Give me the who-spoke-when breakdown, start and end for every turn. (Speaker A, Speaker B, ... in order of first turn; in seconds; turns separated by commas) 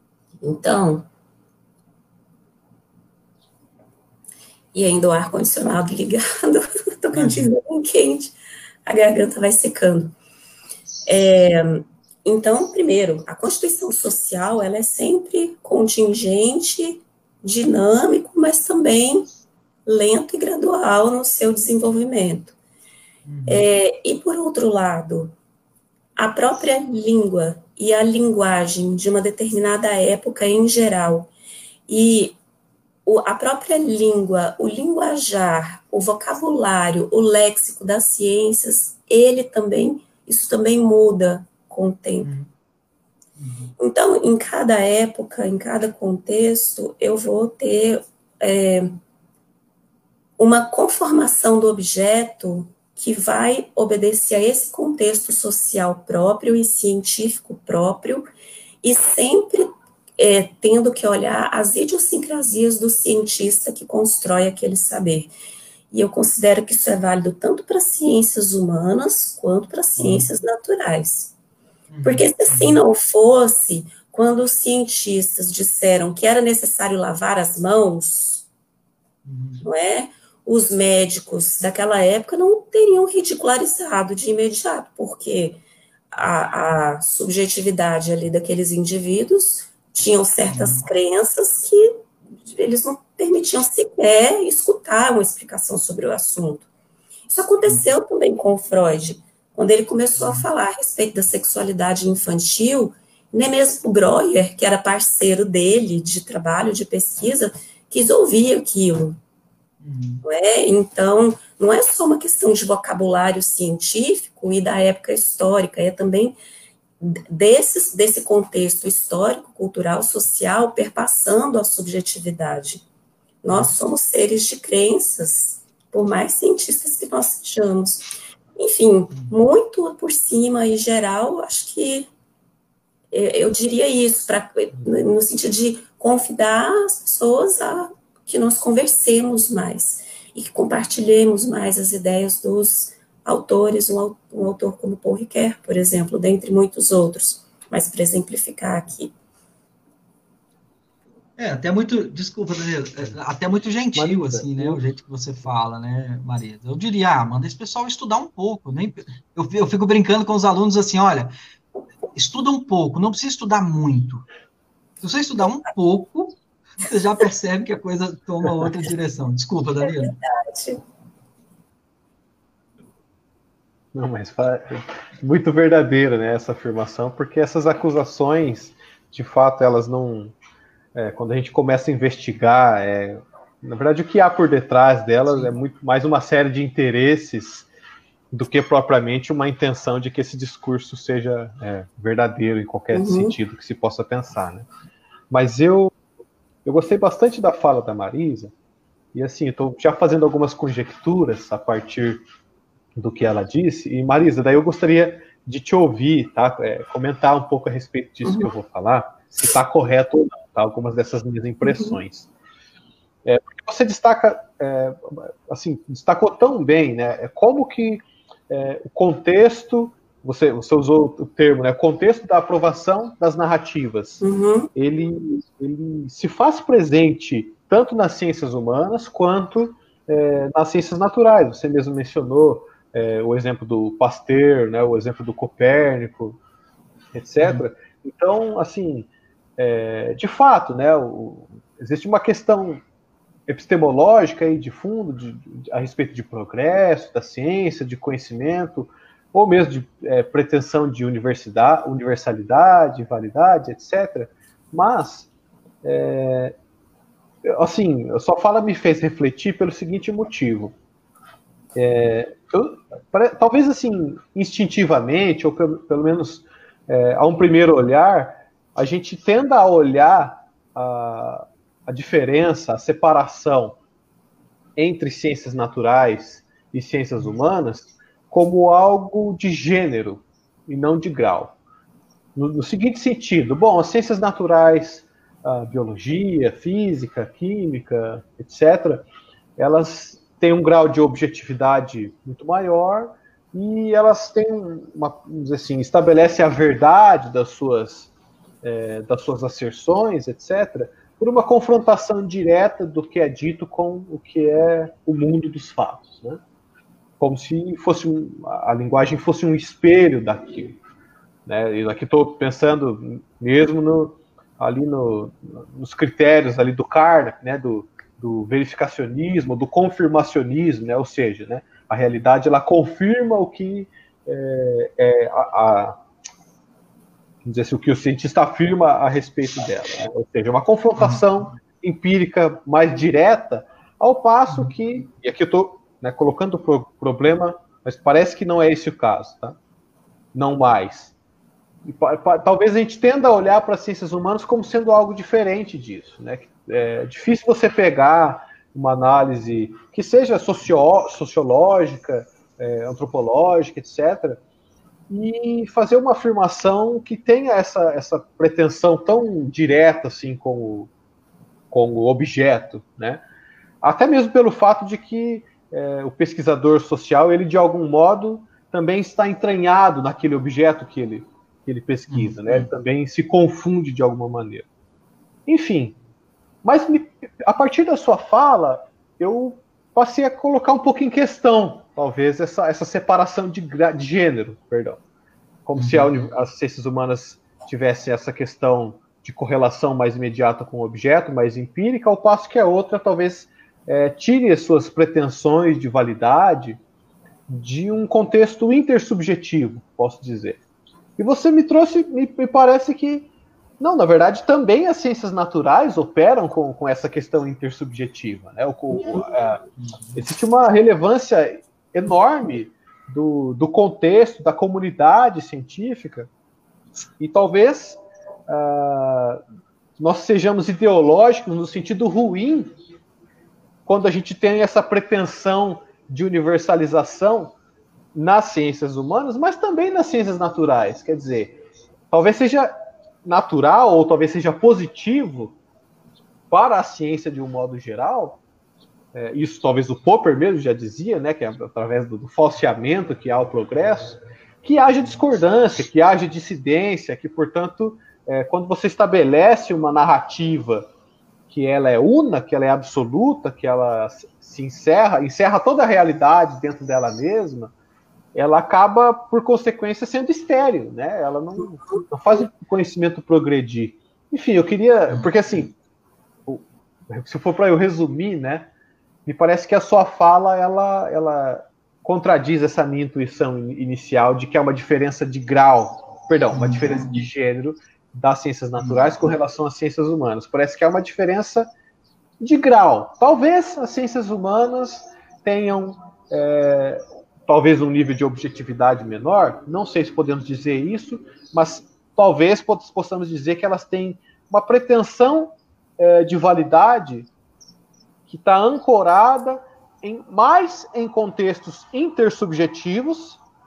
Speaker A: 0.4-1.1, Speaker A: 4.7-8.3, Speaker B: 7.1-7.5, Speaker A: 8.8-10.2, Speaker A: 11.1-19.2, Speaker A: 19.9-22.6, Speaker B: 23.2-23.6, Speaker A: 23.5-25.4, Speaker A: 26.2-31.3, Speaker A: 31.9-32.4, Speaker A: 33.0-42.3, Speaker B: 42.2-42.5, Speaker B: 43.4-43.7, Speaker A: 43.8-48.9, Speaker A: 50.4-58.3, Speaker A: 58.8-65.3, Speaker A: 65.9-71.3, Speaker B: 70.0-70.3, Speaker B: 71.9-72.8, Speaker A: 72.0-78.4, Speaker B: 79.2-79.6, Speaker A: 79.6-85.6, Speaker A: 86.1-91.9, Speaker B: 90.5-90.8, Speaker A: 92.5-96.7, Speaker A: 97.3-109.2, Speaker B: 100.2-100.5, Speaker B: 109.8-110.2, Speaker A: 110.2-116.3, Speaker A: 117.0-122.8, Speaker A: 123.4-128.1, Speaker B: 123.5-123.8, Speaker A: 128.6-132.1, Speaker B: 129.1-129.4, Speaker A: 133.1-149.1, Speaker B: 151.4-161.3, Speaker C: 153.9-154.8, Speaker B: 162.1-164.2, Speaker B: 165.0-170.2, Speaker A: 169.8-170.8, Speaker C: 173.9-180.3, Speaker C: 180.9-187.7, Speaker C: 188.3-194.7, Speaker A: 192.9-193.4, Speaker C: 195.3-195.9, Speaker C: 196.6-198.5, Speaker C: 199.1-202.2, Speaker C: 202.9-212.3, Speaker A: 211.6-212.0, Speaker C: 213.2-224.2, Speaker A: 224.2-224.7, Speaker C: 224.7-236.4, Speaker C: 237.1-242.8, Speaker C: 243.5-255.3, Speaker C: 255.8-256.5, Speaker C: 257.4-260.7, Speaker C: 261.8-273.8, Speaker C: 274.8-281.6, Speaker C: 282.4-289.0, Speaker C: 289.6-298.1, Speaker C: 298.6-306.4, Speaker C: 307.2-310.8, Speaker C: 311.4-326.0, Speaker C: 327.4-339.6, Speaker B: 330.9-331.5, Speaker C: 340.3-341.1, Speaker C: 341.8-354.4, Speaker C: 355.1-360.9, Speaker C: 361.7-363.2, Speaker C: 363.8-374.7, Speaker B: 372.1-372.7, Speaker C: 375.5-375.9, Speaker C: 376.6-385.0, Speaker C: 385.6-396.8, Speaker B: 385.8-386.3, Speaker C: 397.5-400.6, Speaker C: 401.2-409.6, Speaker B: 409.8-410.2, Speaker C: 410.1-416.3, Speaker C: 417.2-419.4, Speaker C: 420.0-422.7, Speaker C: 423.9-427.5, Speaker C: 428.1-431.6, Speaker C: 432.1-432.7, Speaker C: 433.2-435.5, Speaker C: 436.5-438.4, Speaker C: 439.1-450.9, Speaker C: 451.5-457.7, Speaker C: 458.3-465.7, Speaker B: 465.1-465.6, Speaker C: 466.4-468.7, Speaker C: 469.2-481.7, Speaker B: 476.5-477.2, Speaker C: 482.4-497.3, Speaker C: 498.3-503.4